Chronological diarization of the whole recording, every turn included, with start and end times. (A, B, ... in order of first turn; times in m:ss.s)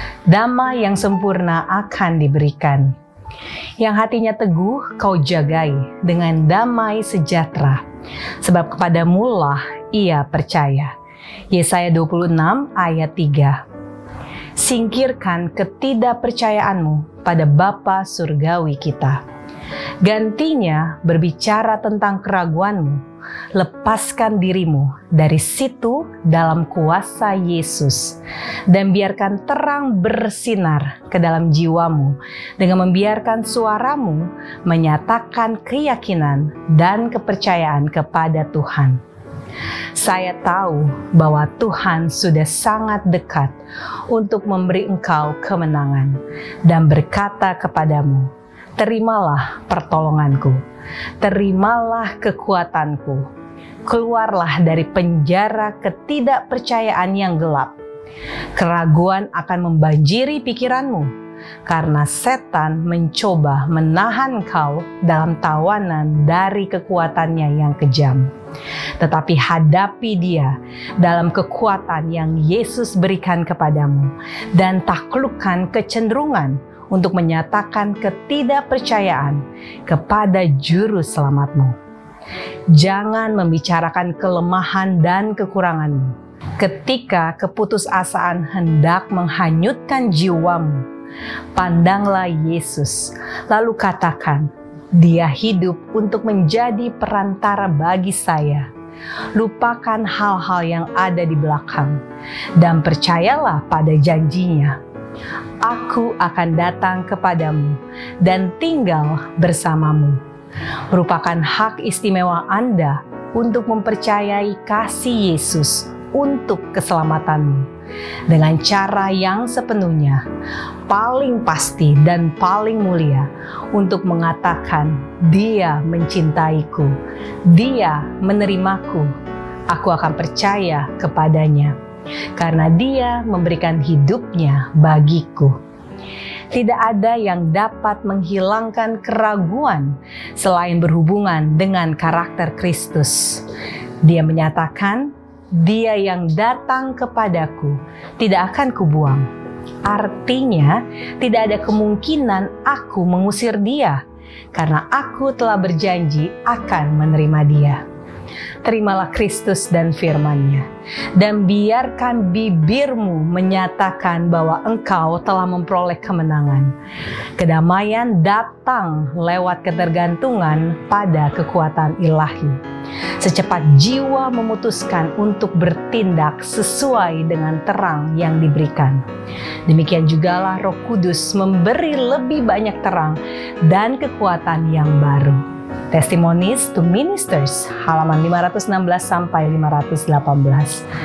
0:00.3-0:02.9 A
0:03.8-0:07.8 A
0:08.4-0:10.9 A
0:11.5-0:13.6 A
0:14.6-0:19.2 A
0:20.0-0:39.0 A
0:39.9-0:50.6 A
0:51.2-0:53.3 A
0:53.8-0:57.8 A
0:58.5-1:01.1 A
1:01.6-1:08.3 A
1:09.0-1:21.7 A
1:22.7-1:30.8 A
1:31.5-1:38.7 A
1:39.3-1:42.0 A
1:42.6-1:44.8 A
1:45.6-1:50.2 A
1:50.9-1:57.7 A
1:58.3-2:00.2 A
2:00.9-2:09.1 A
2:09.7-2:11.8 A
2:12.3-2:15.6 A
2:16.5-2:23.5 A
2:24.0-2:29.3 A
2:29.8-2:34.0 A
2:34.5-2:37.8 A
2:38.6-2:46.7 A
2:47.4-2:52.6 A
2:53.2-2:59.0 A
2:59.6-3:10.8 A